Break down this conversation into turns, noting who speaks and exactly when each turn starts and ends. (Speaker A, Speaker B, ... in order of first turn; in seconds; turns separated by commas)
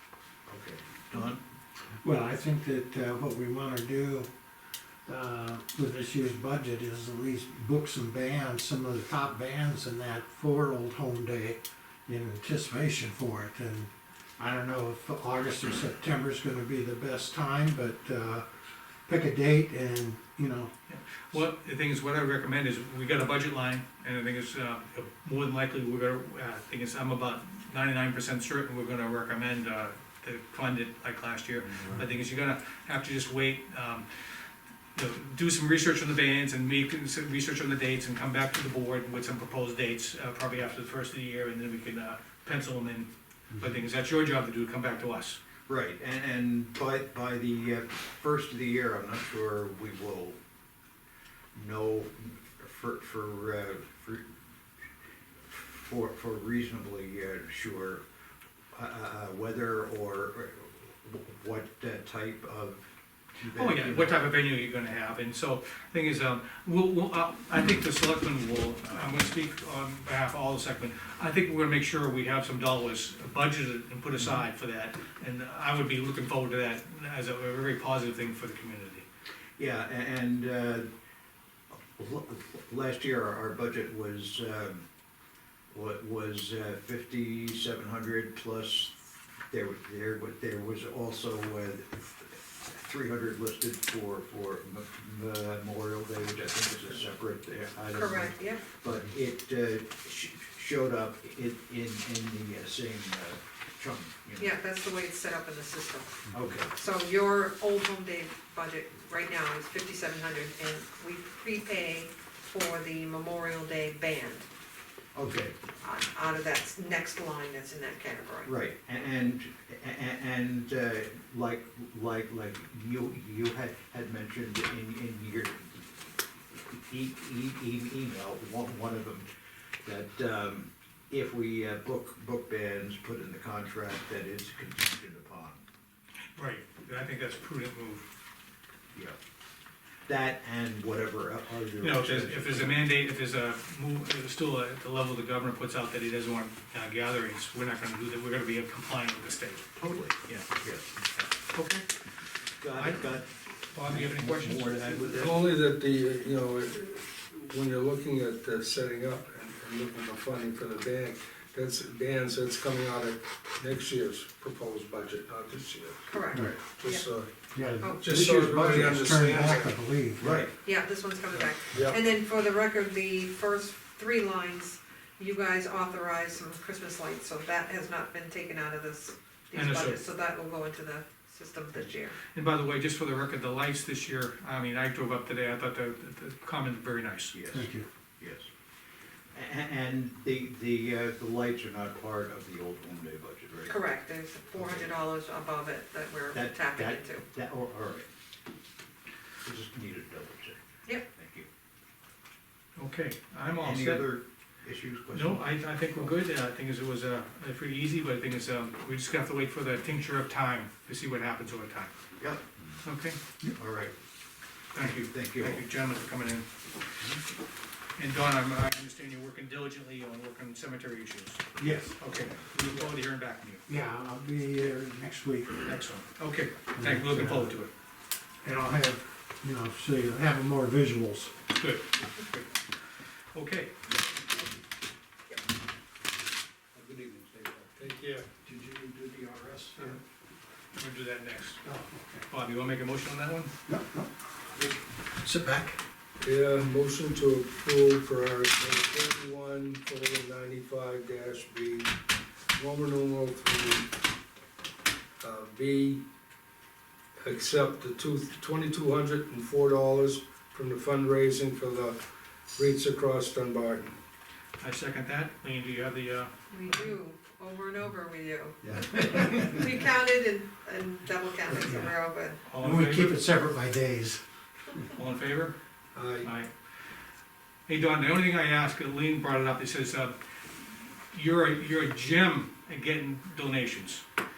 Speaker A: 0.5-1.4, Speaker B: 2.0-4.3, Speaker B: 5.0-18.4, Speaker B: 19.1-20.7, Speaker C: 20.9-45.4, Speaker A: 31.7-32.0, Speaker A: 45.7-50.4, Speaker A: 51.5-54.2, Speaker A: 55.5-58.0, Speaker A: 58.7-62.8, Speaker A: 63.4-64.2, Speaker C: 63.5-79.0, Speaker A: 79.6-80.8, Speaker A: 82.0-84.8, Speaker A: 85.7-88.9, Speaker A: 89.5-104.5, Speaker D: 97.9-98.7, Speaker D: 104.4-114.5, Speaker A: 106.3-106.7, Speaker A: 115.1-115.5, Speaker D: 115.8-118.5, Speaker A: 118.4-125.8, Speaker A: 126.7-129.3, Speaker A: 129.8-135.6, Speaker C: 136.3-138.0, Speaker A: 140.1-142.8, Speaker C: 141.8-149.7, Speaker A: 149.8-151.3, Speaker C: 151.5-151.8, Speaker A: 152.6-153.3, Speaker C: 152.7-153.2, Speaker C: 153.7-155.1, Speaker A: 153.8-155.4, Speaker E: 155.1-167.3, Speaker D: 166.1-167.0, Speaker B: 166.3-166.6, Speaker B: 167.5-170.3, Speaker E: 168.0-169.8, Speaker A: 170.2-170.5, Speaker D: 170.6-182.2, Speaker E: 171.3-172.0, Speaker C: 179.5-180.0, Speaker C: 182.3-187.4, Speaker A: 187.3-187.7, Speaker B: 187.5-187.8, Speaker A: 188.2-188.5, Speaker A: 189.3-193.8, Speaker D: 193.7-197.2, Speaker A: 194.5-194.9, Speaker A: 196.3-198.1, Speaker A: 199.4-201.5, Speaker C: 202.8-204.1, Speaker A: 203.6-206.1, Speaker C: 205.1-211.9, Speaker A: 212.2-212.8, Speaker C: 212.8-213.2, Speaker A: 213.6-213.9, Speaker C: 214.7-216.4, Speaker A: 214.8-215.6, Speaker C: 218.0-223.6, Speaker B: 221.6-221.9, Speaker B: 223.7-225.6, Speaker C: 225.6-227.7, Speaker B: 226.7-227.5, Speaker B: 228.4-231.3, Speaker C: 231.5-232.5, Speaker C: 233.3-233.7, Speaker E: 236.7-238.2, Speaker B: 238.3-240.0, Speaker C: 240.8-241.6, Speaker B: 241.6-242.2, Speaker C: 242.3-243.5, Speaker B: 243.7-244.6, Speaker B: 245.2-245.8, Speaker E: 246.2-251.9, Speaker E: 252.5-253.9, Speaker E: 255.2-256.0, Speaker E: 257.2-262.0, Speaker E: 262.5-264.0, Speaker C: 264.6-266.9, Speaker D: 266.5-272.4, Speaker A: 268.8-269.5, Speaker B: 271.5-271.9, Speaker C: 272.4-273.2, Speaker B: 272.4-274.2, Speaker C: 274.9-275.5, Speaker E: 275.9-276.3, Speaker C: 276.2-276.5, Speaker C: 277.7-284.0